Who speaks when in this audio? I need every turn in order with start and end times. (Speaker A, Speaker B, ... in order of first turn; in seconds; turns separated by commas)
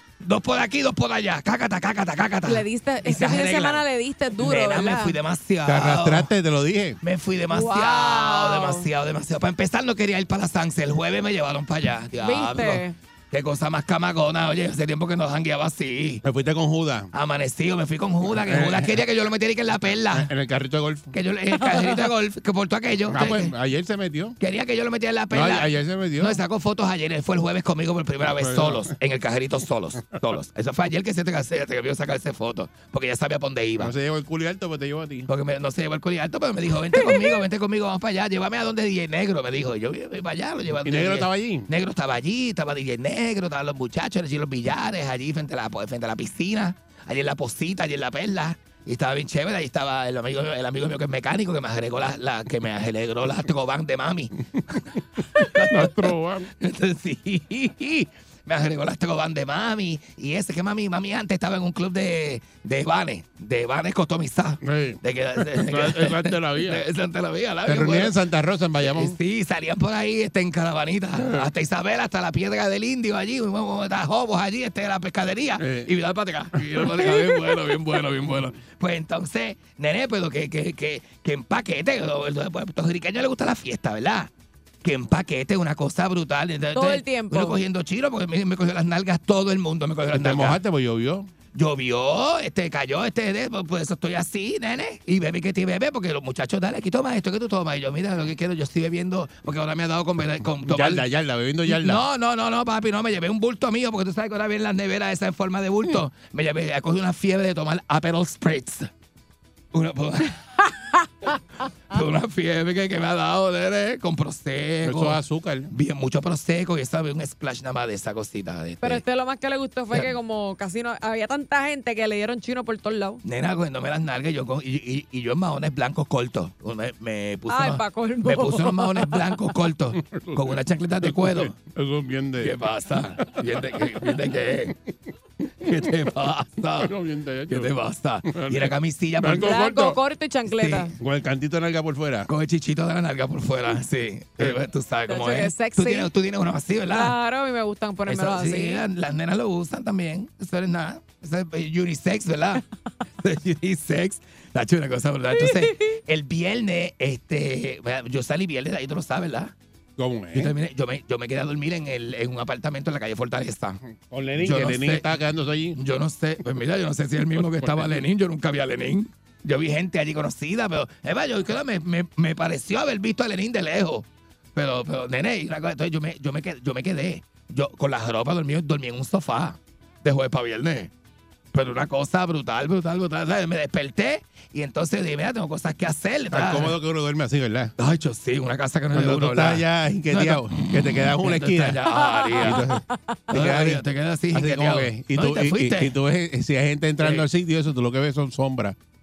Speaker A: 0.2-3.8, Speaker B: 2.4-5.2, Speaker A: 4.4-6.3, Speaker C: 5.7-7.0, Speaker A: 7.0-16.2, Speaker B: 7.5-8.9, Speaker B: 12.2-12.9, Speaker C: 16.2-17.1, Speaker A: 17.1-20.3, Speaker C: 18.3-19.0, Speaker C: 20.1-21.1, Speaker A: 21.1-23.5, Speaker B: 21.5-22.1, Speaker C: 23.1-24.4, Speaker A: 24.4-33.9, Speaker C: 25.3-26.4, Speaker C: 28.2-28.9, Speaker C: 33.8-35.3, Speaker A: 35.3-54.8, Speaker B: 37.0-37.4, Speaker C: 40.8-41.7, Speaker A: 55.4-68.2, Speaker C: 55.6-56.5, Speaker C: 64.6-66.8, Speaker C: 67.7-69.2, Speaker A: 68.8-84.3, Speaker C: 71.2-71.5, Speaker C: 75.6-75.9, Speaker C: 76.6-77.2, Speaker A: 84.8-90.6, Speaker B: 86.7-87.6, Speaker C: 90.1-91.3, Speaker A: 91.5-101.0, Speaker C: 100.6-102.0, Speaker A: 101.7-108.9, Speaker A: 109.7-110.4, Speaker A: 111.9-115.2, Speaker C: 114.8-115.7, Speaker A: 115.7-119.0, Speaker B: 118.8-123.2, Speaker A: 123.2-131.6, Speaker B: 127.5-129.3, Speaker C: 129.9-132.5, Speaker A: 132.4-134.7, Speaker C: 133.3-134.2, Speaker C: 135.6-136.0, Speaker A: 135.7-136.9, Speaker C: 136.8-137.7, Speaker A: 137.5-139.6, Speaker C: 138.3-140.0, Speaker B: 139.3-140.9, Speaker A: 140.5-140.9, Speaker C: 140.9-142.3, Speaker A: 142.3-147.1, Speaker B: 145.1-146.1, Speaker B: 146.9-148.8, Speaker A: 148.1-152.6, Speaker A: 153.2-159.5, Speaker B: 155.3-155.9, Speaker C: 160.0-160.5, Speaker A: 160.3-163.8, Speaker C: 163.9-165.8, Speaker A: 164.4-165.1, Speaker A: 165.8-180.9, Speaker C: 167.4-168.0, Speaker A: 181.5-186.8, Speaker C: 186.3-187.7, Speaker A: 187.8-192.6, Speaker C: 188.9-191.8, Speaker B: 191.9-193.2, Speaker C: 192.4-193.8, Speaker A: 193.3-195.9, Speaker C: 194.3-198.8, Speaker A: 197.0-197.2